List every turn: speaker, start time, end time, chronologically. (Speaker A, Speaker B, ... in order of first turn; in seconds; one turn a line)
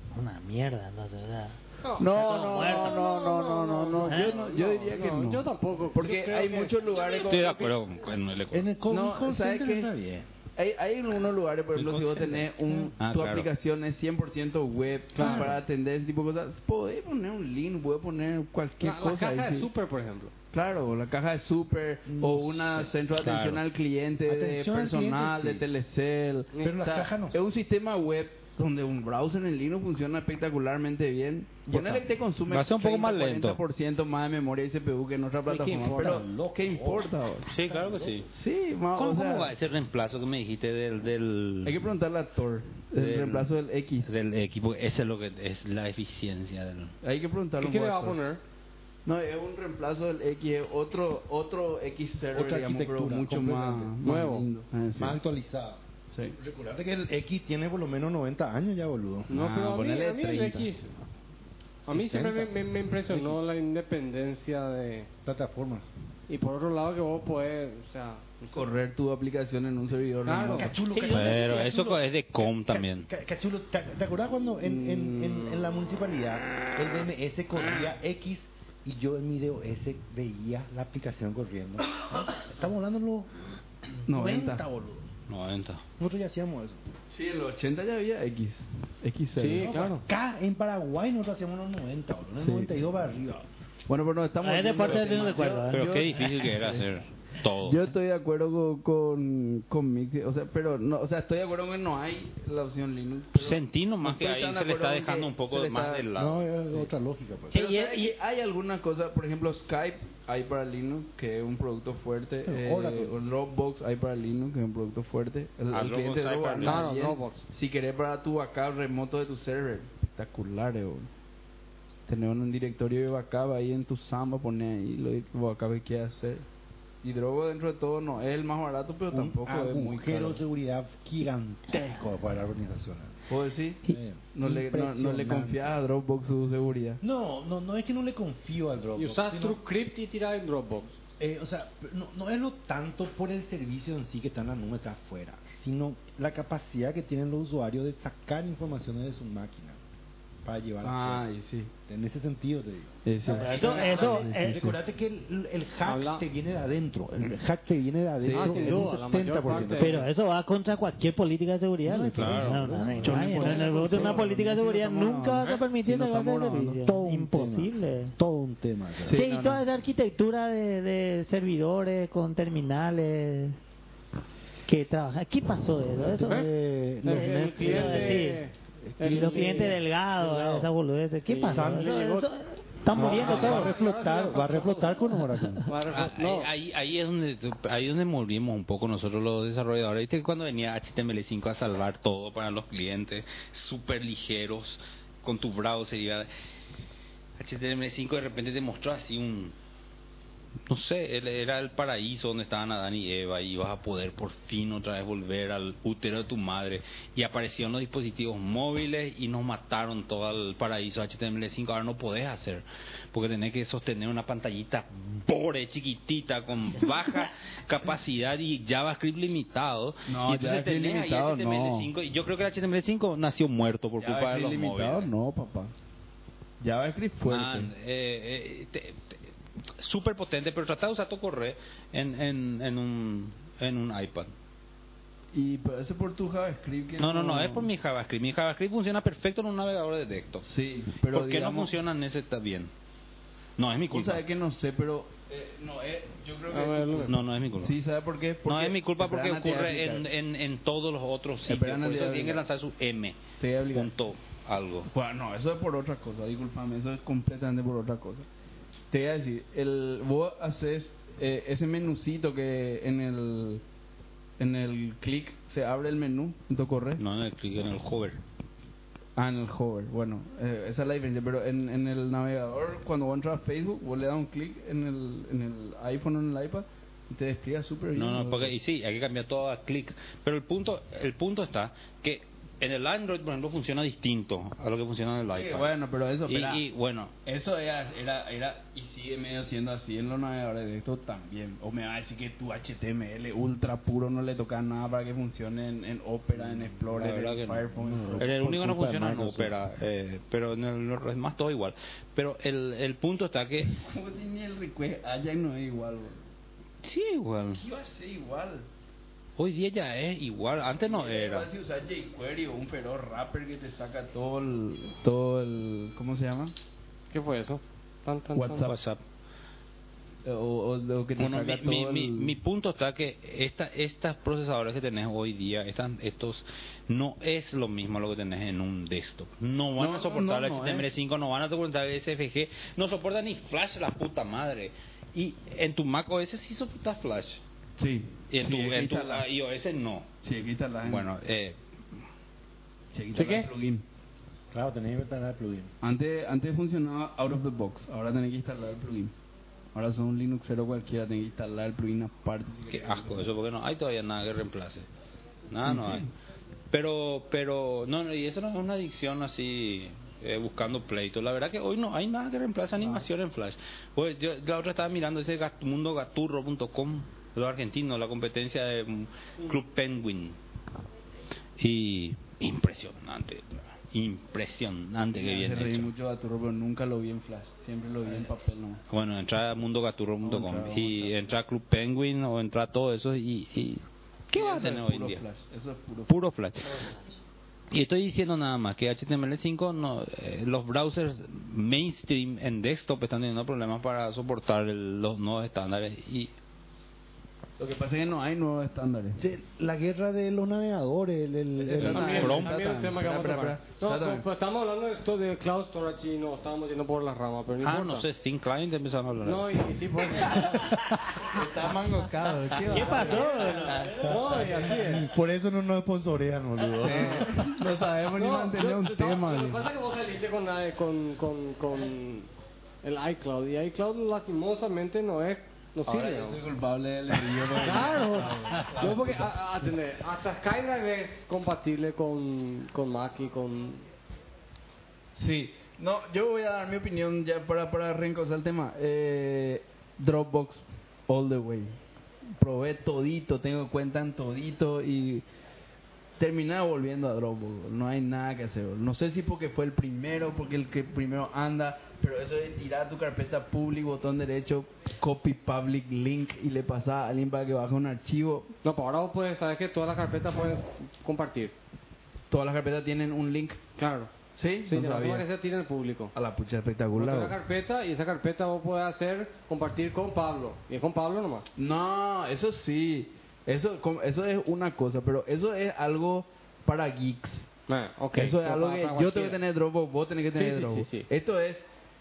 Speaker A: 0.1-3.2
Speaker B: 1.8-7.3
Speaker C: 2.0-7.7
Speaker A: 4.1-4.4
Speaker D: 7.1-8.7
Speaker E: 8.5-10.3
Speaker C: 8.9-9.9
Speaker C: 10.6-19.7
Speaker E: 11.7-12.9
Speaker D: 13.0-13.5
Speaker B: 15.1-15.6
Speaker E: 15.2-15.6
Speaker B: 18.8-20.3
Speaker C: 20.5-37.5
Speaker E: 22.1-22.9
Speaker D: 23.1-23.6
Speaker E: 24.2-25.7
Speaker B: 26.5-26.8
Speaker E: 26.6-27.5
Speaker E: 31.7-32.0
Speaker D: 32.5-33.6
Speaker B: 35.5-36.2
Speaker E: 35.8-38.2
Speaker D: 37.5-38.3
Speaker C: 38.3-39.5
Speaker D: 39.0-41.8
Speaker C: 41.6-44.1
Speaker D: 42.9-43.5
Speaker D: 44.0-46.9
Speaker C: 47.0-48.2
Speaker B: 47.6-48.4
Speaker C: 49.1-55.2
Speaker E: 52.3-54.0
Speaker B: 54.0-54.5
Speaker E: 55.0-59.3
Speaker C: 59.3-60.7
Speaker B: 59.3-60.9
Speaker B: 61.9-65.1
Speaker E: 61.9-63.4
Speaker E: 65.2-65.9
Speaker B: 66.3-68.7
Speaker C: 68.5-70.7
Speaker B: 70.2-71.2
Speaker E: 70.5-83.3
Speaker D: 71.1-73.1
Speaker B: 74.6-75.7
Speaker E: 84.0-85.1
Speaker C: 84.1-84.6
Speaker D: 85.3-85.8
Speaker E: 86.0-86.8
Speaker C: 87.1-89.8
Speaker B: 89.3-90.0
Speaker E: 89.5-93.5
Speaker C: 92.4-92.7
Speaker C: 93.9-96.8
Speaker A: 94.4-96.3
Speaker D: 95.7-97.8
Speaker C: 97.6-106.1
Speaker D: 103.3-106.4
Speaker E: 106.1-107.6
Speaker D: 107.5-108.1
Speaker C: 107.5-121.1
Speaker E: 112.5-113.1
Speaker D: 115.7-116.8
Speaker B: 116.6-117.4
Speaker C: 122.1-126.5
Speaker C: 127.0-130.4
Speaker E: 129.1-133.3
Speaker C: 133.3-137.0
Speaker E: 133.9-135.8
Speaker E: 137.0-139.6
Speaker B: 139.0-140.9
Speaker E: 141.2-149.8
Speaker E: 150.4-151.2
Speaker C: 150.8-151.7
Speaker E: 151.8-160.1
Speaker C: 153.0-154.8
Speaker A: 153.3-154.6
Speaker B: 153.5-154.2
Speaker B: 155.8-156.2
Speaker C: 158.2-159.0
Speaker B: 158.3-160.1
Speaker A: 159.7-168.1
Speaker E: 161.8-163.4
Speaker D: 162.1-162.7
Speaker C: 163.0-165.5
Speaker B: 163.3-164.2
Speaker E: 165.8-169.2
Speaker C: 169.0-169.6
Speaker A: 169.1-173.6
Speaker A: 174.7-176.5
Speaker E: 176.1-178.2
Speaker B: 176.2-176.5
Speaker A: 177.0-178.4
Speaker B: 177.0-179.8
Speaker E: 178.8-180.7
Speaker A: 179.0-183.8
Speaker B: 181.3-182.3
Speaker E: 181.5-181.9
Speaker E: 182.9-185.7
Speaker B: 182.9-185.1
Speaker B: 185.7-186.5
Speaker D: 185.9-196.3
Speaker D: 197.4-199.5
Speaker D: 200.7-225.1
Speaker C: 220.1-221.9
Speaker C: 224.0-225.7
Speaker C: 226.6-227.7
Speaker D: 227.2-229.2
Speaker D: 229.8-234.3
Speaker C: 235.3-237.7
Speaker D: 237.0-240.5
Speaker C: 240.4-241.7
Speaker D: 241.0-242.7
Speaker D: 243.6-244.2
Speaker C: 243.9-250.1
Speaker B: 246.5-247.2
Speaker D: 247.0-247.7
Speaker D: 248.5-253.2
Speaker C: 251.5-252.4
Speaker C: 253.4-253.9
Speaker D: 253.7-254.9
Speaker C: 254.9-258.3
Speaker C: 258.9-263.6
Speaker C: 264.4-267.0
Speaker D: 267.0-268.2
Speaker C: 269.2-278.5
Speaker D: 277.9-285.7
Speaker C: 285.3-286.6
Speaker D: 286.3-287.1
Speaker C: 287.2-298.6
Speaker D: 296.6-297.6
Speaker E: 297.8-299.5
Speaker D: 298.2-303.7
Speaker C: 303.6-306.2
Speaker D: 306.8-307.6
Speaker C: 307.6-308.6
Speaker D: 309.4-311.5
Speaker C: 310.9-316.5
Speaker B: 317.1-318.7
Speaker C: 318.4-318.7
Speaker D: 318.6-319.0
Speaker C: 320.2-322.4
Speaker D: 321.2-337.4
Speaker C: 329.8-330.9
Speaker C: 337.8-339.3
Speaker D: 338.3-340.1
Speaker C: 340.2-341.1
Speaker D: 340.9-341.6
Speaker C: 342.9-343.9
Speaker B: 343.1-343.5
Speaker E: 344.5-345.7
Speaker C: 345.8-349.1
Speaker C: 349.7-353.3
Speaker D: 352.7-354.9
Speaker D: 355.5-356.1
Speaker C: 355.6-356.0
Speaker D: 356.7-370.4
Speaker D: 371.6-375.9
Speaker C: 375.1-378.8
Speaker D: 378.9-385.2
Speaker C: 380.2-381.1
Speaker C: 384.3-386.1
Speaker D: 386.1-386.9
Speaker D: 387.7-396.3
Speaker C: 397.6-399.2
Speaker E: 399.2-402.4
Speaker C: 401.6-404.2
Speaker B: 401.8-408.1
Speaker D: 401.9-402.6
Speaker D: 407.6-409.7
Speaker B: 409.2-410.6
Speaker C: 410.1-410.5
Speaker E: 410.3-411.6
Speaker C: 411.2-413.5
Speaker A: 412.7-414.1
Speaker B: 412.7-413.4
Speaker E: 412.9-417.3
Speaker B: 414.0-415.1
Speaker C: 416.8-419.6
Speaker B: 416.9-417.3
Speaker B: 418.1-422.3
Speaker B: 422.8-426.4
Speaker C: 425.9-429.3
Speaker B: 427.4-433.9
Speaker C: 435.1-441.8
Speaker C: 442.3-445.2
Speaker C: 446.2-458.5
Speaker B: 458.6-461.5
Speaker C: 462.3-463.6
Speaker B: 463.8-464.1
Speaker C: 464.4-465.3
Speaker B: 464.7-466.1
Speaker C: 466.1-467.4
Speaker B: 467.0-471.5
Speaker C: 471.6-477.5
Speaker B: 477.7-479.4
Speaker C: 478.1-481.7
Speaker B: 480.3-481.1